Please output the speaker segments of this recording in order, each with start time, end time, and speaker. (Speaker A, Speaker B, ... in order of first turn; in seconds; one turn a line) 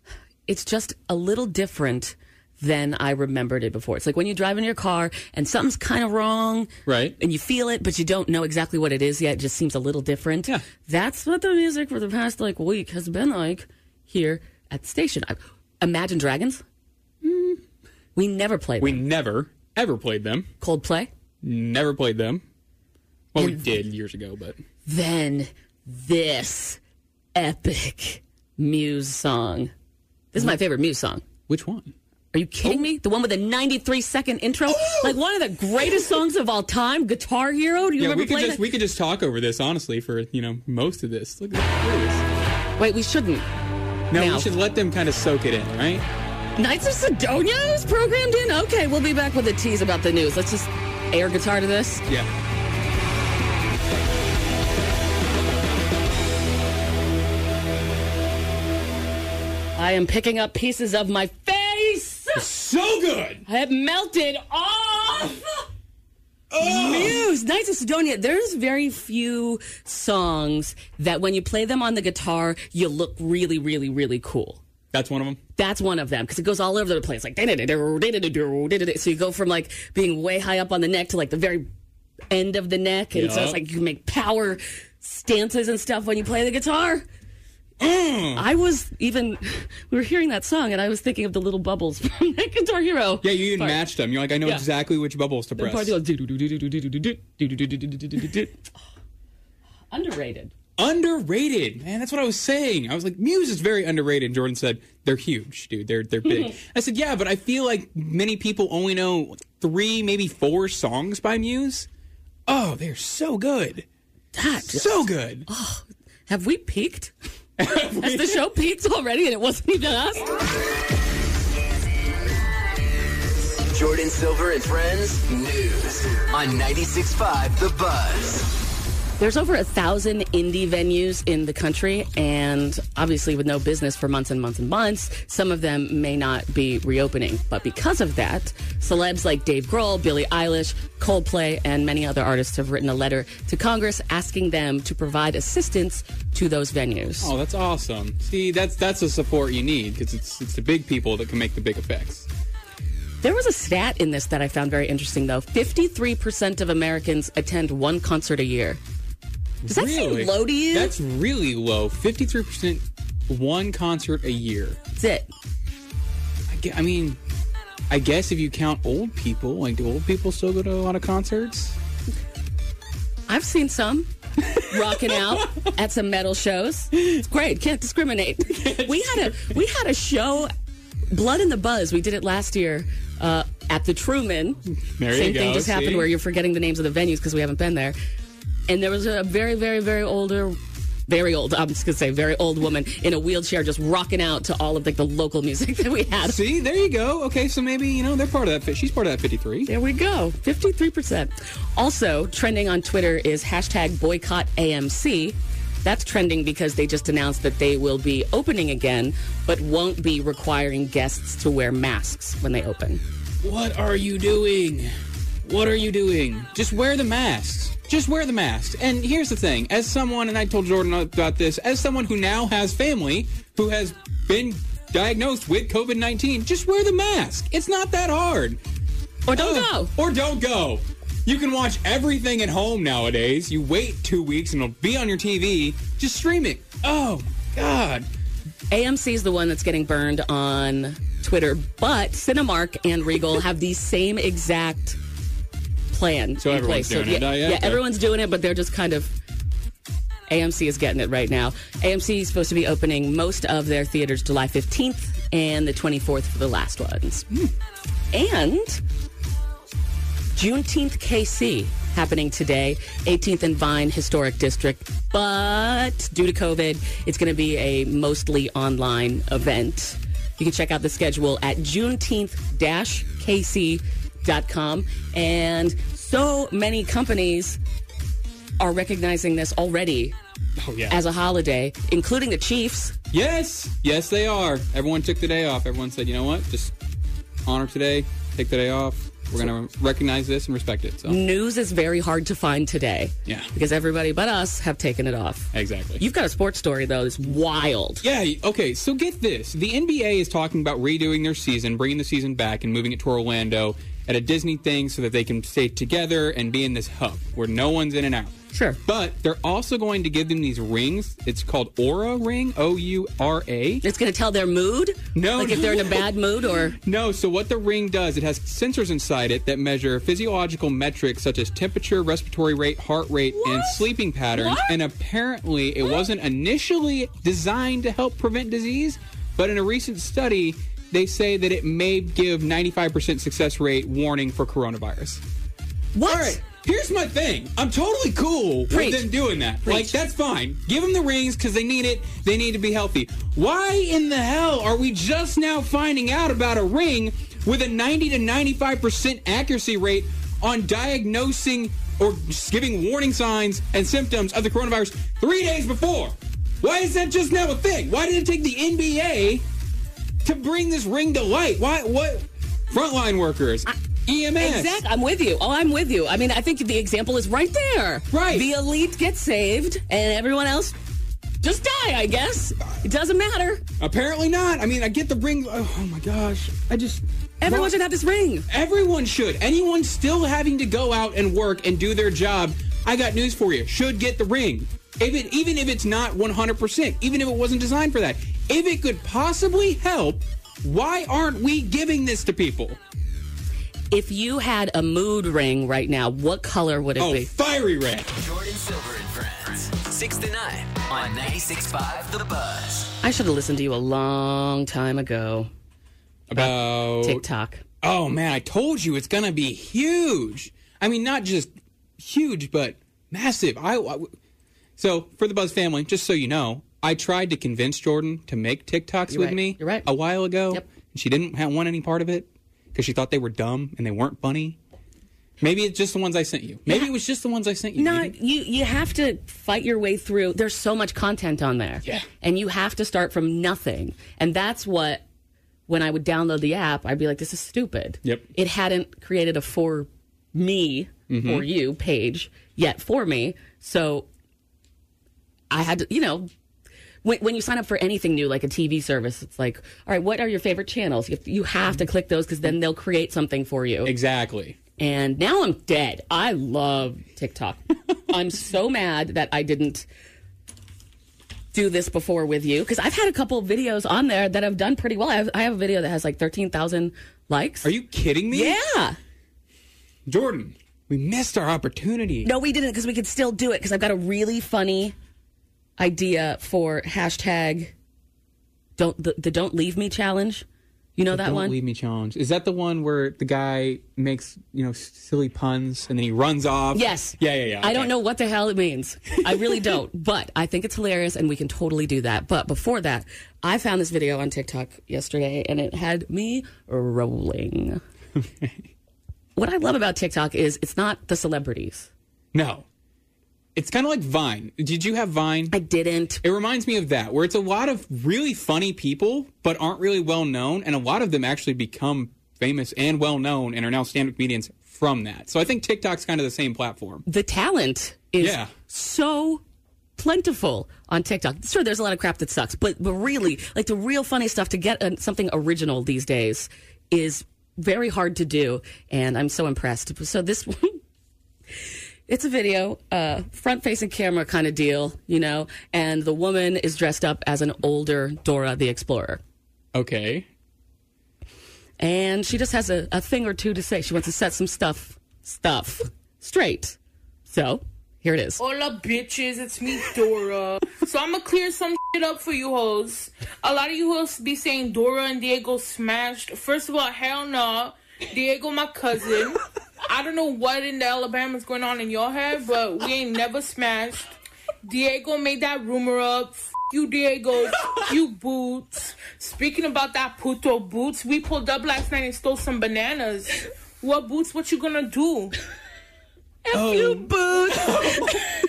Speaker A: 0.5-16.6
Speaker B: 6.9-7.2
Speaker B: 17.2-17.6
Speaker A: 18.2-19.1
Speaker B: 18.8-20.5
Speaker A: 20.6-21.1
Speaker B: 21.4-22.4
Speaker B: 23.3-24.6
Speaker A: 23.4-23.7
Speaker A: 24.9-26.8
Speaker A: 27.4-29.7
Speaker A: 30.3-31.2
Speaker B: 31.5-31.9
Speaker A: 32.3-38.6
Speaker B: 34.8-35.1
Speaker B: 38.0-42.2
Speaker A: 42.8-43.5
Speaker B: 44.1-46.0
Speaker A: 44.1-44.5
Speaker A: 46.6-52.1
Speaker A: 59.8-62.5
Speaker B: 62.4-63.4
Speaker A: 63.5-65.6
Speaker B: 66.5-67.2
Speaker A: 66.6-74.6
Speaker B: 74.9-75.4
Speaker A: 75.6-81.7
Speaker A: 82.3-87.1
Speaker B: 83.1-83.6
Speaker B: 87.8-88.5
Speaker A: 88.3-93.8
Speaker B: 93.2-96.0
Speaker A: 95.6-98.7
Speaker A: 99.9-100.5
Speaker B: 100.8-111.9
Speaker B: 112.5-113.8
Speaker A: 114.3-117.1
Speaker B: 114.7-115.5
Speaker B: 117.6-118.4
Speaker A: 117.7-120.3
Speaker C: 123.7-128.5
Speaker A: 129.2-147.3
Speaker B: 147.2-152.3
Speaker A: 153.2-158.8
Speaker B: 159.6-164.8
Speaker A: 159.7-160.9
Speaker A: 165.0-165.3
Speaker B: 166.5-167.2
Speaker B: 167.9-171.8
Speaker A: 173.3-180.5
Speaker B: 178.5-179.5
Speaker A: 181.1-188.0
Speaker B: 184.9-186.1
Speaker A: 188.7-196.4
Speaker B: 196.2-199.7
Speaker A: 199.7-213.0
Speaker B: 213.4-214.9
Speaker B: 215.4-228.6
Speaker A: 229.3-229.9
Speaker B: 229.3-238.1
Speaker A: 238.7-245.0
Speaker A: 245.9-249.1
Speaker B: 246.4-247.8
Speaker A: 250.3-257.3
Speaker A: 258.1-258.8
Speaker A: 260.4-277.6
Speaker A: 278.6-280.1
Speaker B: 280.6-281.0
Speaker A: 280.9-283.0
Speaker B: 283.1-286.7
Speaker B: 287.5-291.2
Speaker A: 291.1-298.0
Speaker B: 293.3-293.5
Speaker B: 295.5-296.0
Speaker B: 298.0-308.3
Speaker A: 308.5-308.8
Speaker B: 308.9-313.8
Speaker A: 313.8-316.8
Speaker B: 315.1-316.1
Speaker B: 316.7-335.2
Speaker A: 323.3-324.8
Speaker A: 335.9-336.4
Speaker B: 336.1-359.4
Speaker A: 338.7-339.1
Speaker A: 339.6-339.9
Speaker B: 360.2-364.8
Speaker A: 364.4-370.8
Speaker B: 368.1-368.5
Speaker A: 371.4-373.6
Speaker B: 373.8-377.7
Speaker A: 377.4-378.5
Speaker B: 378.5-392.8
Speaker A: 393.9-397.3
Speaker B: 397.0-398.1
Speaker C: 398.1-402.9
Speaker A: 403.0-405.5
Speaker B: 406.3-407.2
Speaker A: 406.4-407.6
Speaker B: 407.8-414.1
Speaker B: 414.8-424.6
Speaker A: 419.1-419.9
Speaker B: 425.4-428.1
Speaker A: 427.8-435.0
Speaker A: 435.7-444.1
Speaker B: 441.1-441.5
Speaker A: 445.5-446.3
Speaker A: 447.0-453.9
Speaker B: 453.9-454.6
Speaker A: 454.8-459.9
Speaker A: 461.5-467.7
Speaker B: 467.6-468.6
Speaker A: 468.3-469.0
Speaker B: 470.1-472.3
Speaker A: 472.2-474.9
Speaker A: 475.8-477.7
Speaker A: 478.8-480.4
Speaker A: 481.0-481.6
Speaker B: 481.1-487.9
Speaker A: 486.7-497.8
Speaker B: 489.3-489.7
Speaker B: 498.2-498.6
Speaker A: 499.4-501.9
Speaker B: 502.3-502.6
Speaker B: 503.6-505.6
Speaker A: 505.5-506.2
Speaker B: 506.2-517.0
Speaker A: 517.1-519.4
Speaker B: 518.2-518.5
Speaker A: 520.0-530.8
Speaker A: 532.1-539.2
Speaker B: 539.7-540.3
Speaker A: 541.8-546.8
Speaker A: 547.3-548.4
Speaker D: 548.4-564.1
Speaker D: 564.6-575.4
Speaker A: 576.5-578.2
Speaker B: 576.5-578.1